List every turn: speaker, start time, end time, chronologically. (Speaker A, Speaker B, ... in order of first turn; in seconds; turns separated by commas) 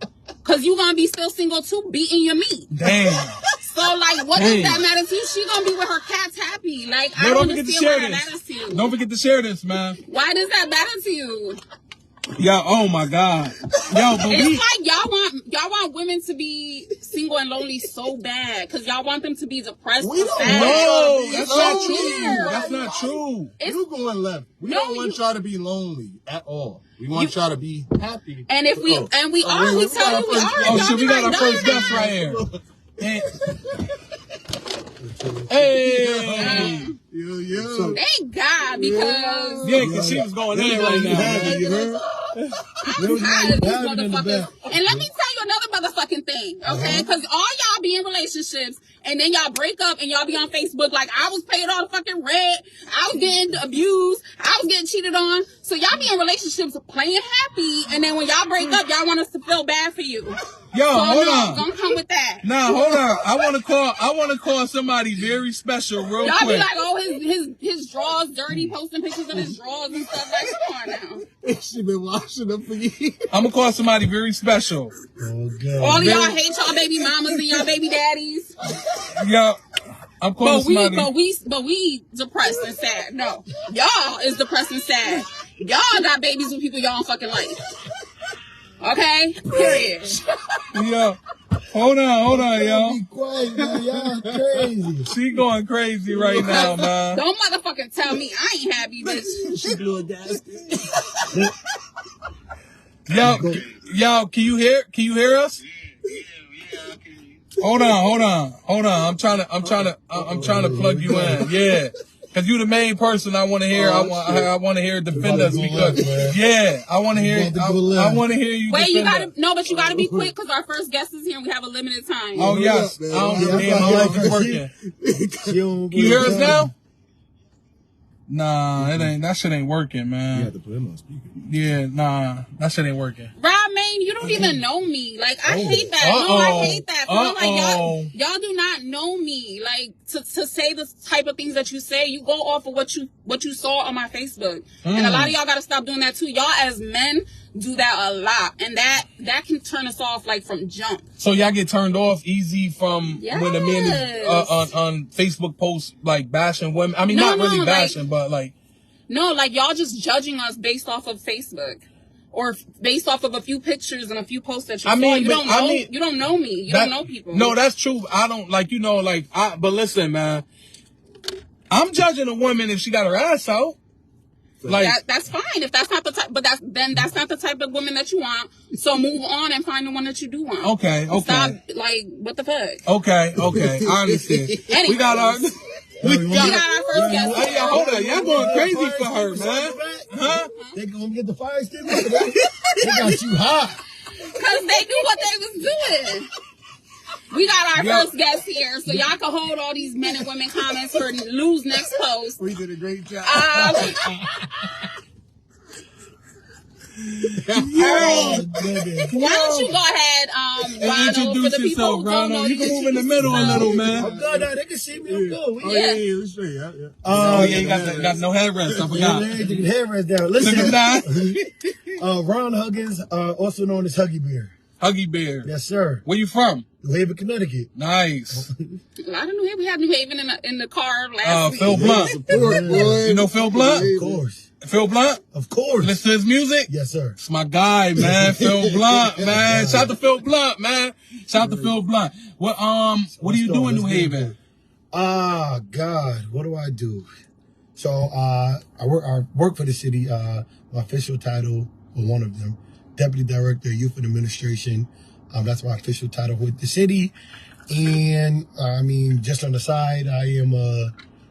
Speaker A: 0.4-2.7, Speaker B: 2.7-3.4, Speaker A: 3.6-8.9, Speaker B: 4.3-4.8, Speaker B: 7.2-10.0, Speaker A: 10.0-11.6, Speaker B: 12.4-14.6, Speaker A: 14.3-23.8, Speaker C: 20.0-22.7, Speaker B: 20.4-23.5, Speaker C: 23.6-33.6, Speaker A: 24.7-25.2, Speaker A: 28.5-32.0, Speaker B: 30.6-32.4, Speaker B: 33.0-33.3, Speaker D: 35.0-35.8, Speaker B: 35.5-36.9, Speaker C: 35.7-38.0, Speaker A: 36.4-36.8, Speaker D: 37.5-38.0, Speaker A: 37.9-39.8, Speaker C: 38.6-42.3, Speaker B: 39.6-41.6, Speaker D: 39.8-42.0, Speaker B: 42.4-42.9, Speaker D: 43.0-45.1, Speaker A: 43.0-60.4, Speaker D: 46.6-47.1, Speaker B: 60.7-61.6, Speaker A: 60.9-63.1, Speaker B: 62.4-66.7, Speaker A: 66.2-71.2, Speaker C: 71.4-73.3, Speaker B: 73.3-74.9, Speaker D: 75.2-76.3, Speaker A: 75.8-78.5, Speaker B: 75.9-76.4, Speaker B: 79.1-79.6, Speaker B: 80.2-81.1, Speaker A: 80.4-87.6, Speaker A: 88.8-90.2, Speaker C: 89.6-89.8, Speaker B: 90.7-91.2, Speaker B: 91.7-93.0, Speaker D: 92.3-95.1, Speaker C: 93.5-94.7, Speaker B: 95.1-97.2, Speaker C: 96.1-96.9, Speaker A: 96.4-99.4, Speaker C: 99.0-101.4, Speaker B: 103.1-105.6, Speaker D: 103.1-103.7, Speaker C: 106.7-107.4, Speaker B: 107.6-119.3, Speaker D: 110.1-111.5, Speaker C: 111.1-111.4, Speaker C: 113.7-114.5, Speaker C: 115.1-116.3, Speaker D: 115.1-116.4, Speaker D: 117.1-118.2, Speaker A: 118.7-122.6, Speaker C: 119.7-120.3, Speaker C: 122.3-126.6, Speaker B: 122.3-124.7, Speaker D: 123.2-124.6, Speaker D: 125.5-126.7, Speaker B: 125.9-126.7, Speaker B: 128.3-130.5, Speaker C: 128.8-129.1, Speaker C: 130.3-131.4, Speaker B: 131.4-133.3, Speaker A: 133.4-151.1, Speaker D: 134.2-134.6, Speaker D: 135.4-135.9, Speaker B: 136.0-138.1, Speaker B: 144.8-145.3, Speaker B: 151.2-158.5, Speaker A: 153.2-154.7, Speaker A: 157.1-158.0, Speaker A: 159.1-167.5, Speaker B: 164.8-165.9, Speaker B: 166.7-170.4, Speaker B: 171.7-173.8, Speaker B: 174.6-175.0, Speaker A: 174.7-182.8, Speaker B: 180.6-181.6, Speaker B: 182.8-186.6, Speaker C: 183.4-184.7, Speaker A: 184.7-185.3, Speaker D: 186.0-193.8, Speaker A: 186.3-188.7, Speaker B: 187.3-190.5, Speaker A: 194.3-196.3, Speaker A: 197.3-202.4, Speaker B: 197.8-198.1, Speaker C: 202.4-204.1, Speaker A: 203.2-204.1, Speaker C: 207.3-208.5, Speaker A: 207.8-208.4, Speaker D: 207.8-209.1, Speaker B: 209.1-209.8, Speaker A: 209.1-213.7, Speaker B: 210.8-214.1, Speaker C: 213.2-214.5, Speaker D: 213.2-215.8, Speaker C: 215.0-219.7, Speaker A: 215.6-216.1, Speaker D: 217.0-218.0, Speaker B: 217.2-219.3, Speaker D: 218.9-221.3, Speaker B: 220.4-221.6, Speaker D: 222.0-224.5, Speaker B: 224.8-225.5, Speaker D: 225.4-226.0, Speaker B: 226.0-226.7, Speaker D: 226.8-227.7, Speaker B: 227.7-228.5, Speaker A: 229.0-231.8, Speaker B: 231.2-232.2, Speaker C: 231.7-234.2, Speaker D: 231.7-233.1, Speaker B: 233.0-233.9, Speaker D: 233.8-234.5, Speaker B: 234.6-235.2, Speaker D: 235.3-236.0, Speaker B: 235.8-244.3, Speaker D: 236.7-237.2, Speaker D: 239.2-239.9, Speaker C: 241.3-241.7, Speaker D: 243.2-244.3, Speaker D: 244.9-247.1, Speaker D: 247.8-257.1, Speaker D: 257.7-260.9